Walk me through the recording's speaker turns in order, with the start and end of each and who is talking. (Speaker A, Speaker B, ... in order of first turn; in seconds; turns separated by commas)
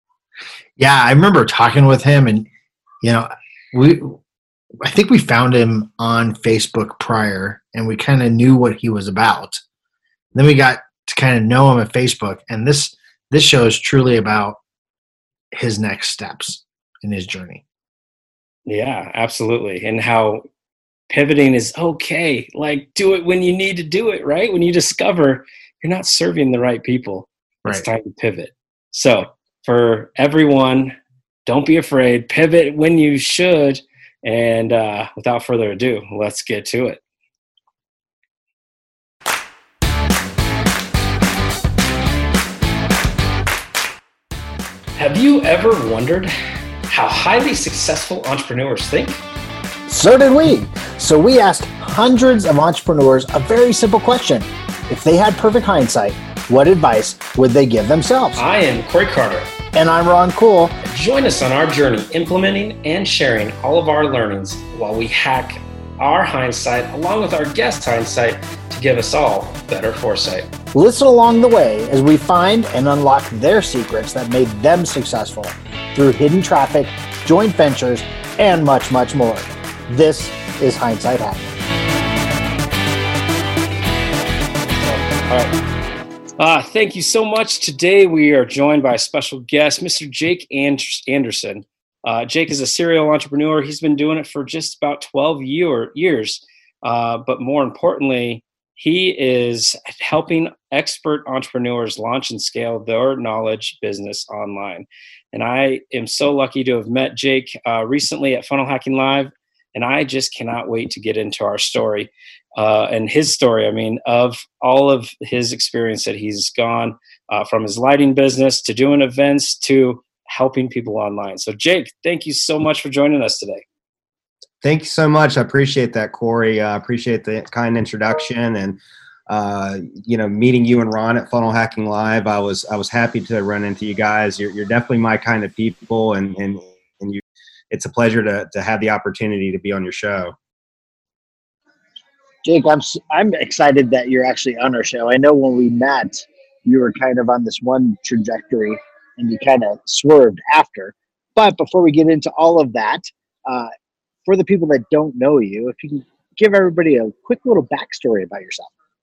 Speaker A: 0.8-2.5, Speaker A: 3.0-4.2, Speaker A: 4.8-9.6, Speaker A: 10.3-14.6, Speaker A: 15.5-17.6, Speaker B: 18.7-20.4, Speaker B: 21.1-37.0, Speaker B: 45.0-46.3, Speaker B: 46.9-49.2, Speaker A: 49.9-58.4, Speaker B: 58.4-59.5, Speaker A: 59.7-60.8, Speaker B: 60.8-70.5, Speaker A: 70.7-81.6, Speaker B: 84.7-85.5, Speaker B: 86.4-123.7, Speaker C: 124.6-140.3, Speaker A: 142.4-153.7, Speaker A: 154.3-158.7